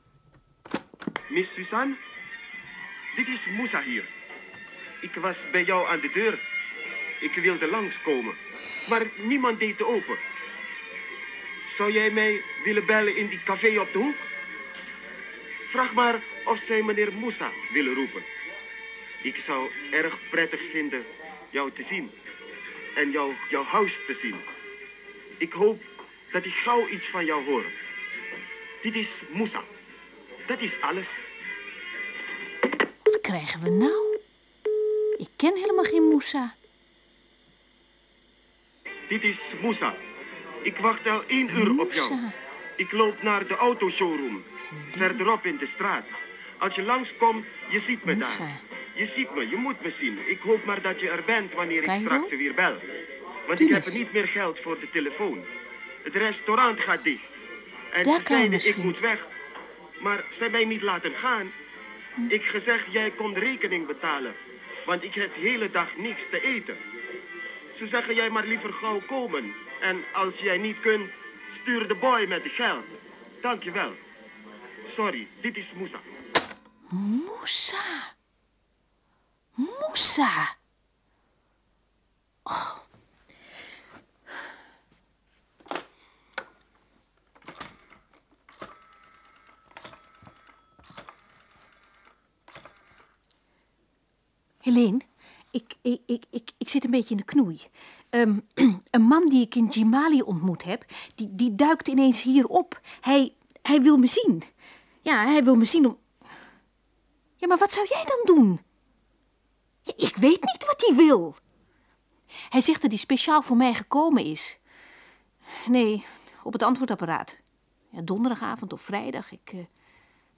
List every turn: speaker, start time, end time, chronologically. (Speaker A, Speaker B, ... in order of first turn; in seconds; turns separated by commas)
Speaker A: 1.3-2.0, Speaker A: 3.1-4.1, Speaker A: 5.0-6.4, Speaker A: 7.2-10.2, Speaker A: 11.7-14.2, Speaker A: 15.7-18.3, Speaker A: 19.2-22.1, Speaker A: 22.9-24.4, Speaker A: 25.4-27.7, Speaker A: 28.8-29.7, Speaker A: 30.5-31.2, Speaker B: 33.0-34.2, Speaker B: 35.2-36.5, Speaker A: 39.1-40.0, Speaker A: 40.6-42.2, Speaker B: 41.5-42.4, Speaker A: 42.8-52.8, Speaker B: 44.7-45.2, Speaker B: 48.0-48.6, Speaker B: 51.8-52.3, Speaker A: 53.5-55.5, Speaker B: 53.6-54.0, Speaker A: 56.0-57.2, Speaker A: 57.9-59.3, Speaker B: 58.0-59.0, Speaker A: 60.0-61.5, Speaker A: 62.3-66.8, Speaker A: 67.7-74.0, Speaker A: 74.9-76.0, Speaker B: 76.9-78.1, Speaker B: 79.5-80.5, Speaker B: 82.5-82.8, Speaker B: 94.6-104.5, Speaker B: 105.0-106.0, Speaker B: 107.4-108.6, Speaker B: 109.8-111.4, Speaker B: 112.5-114.6, Speaker B: 115.5-117.4, Speaker B: 117.9-119.7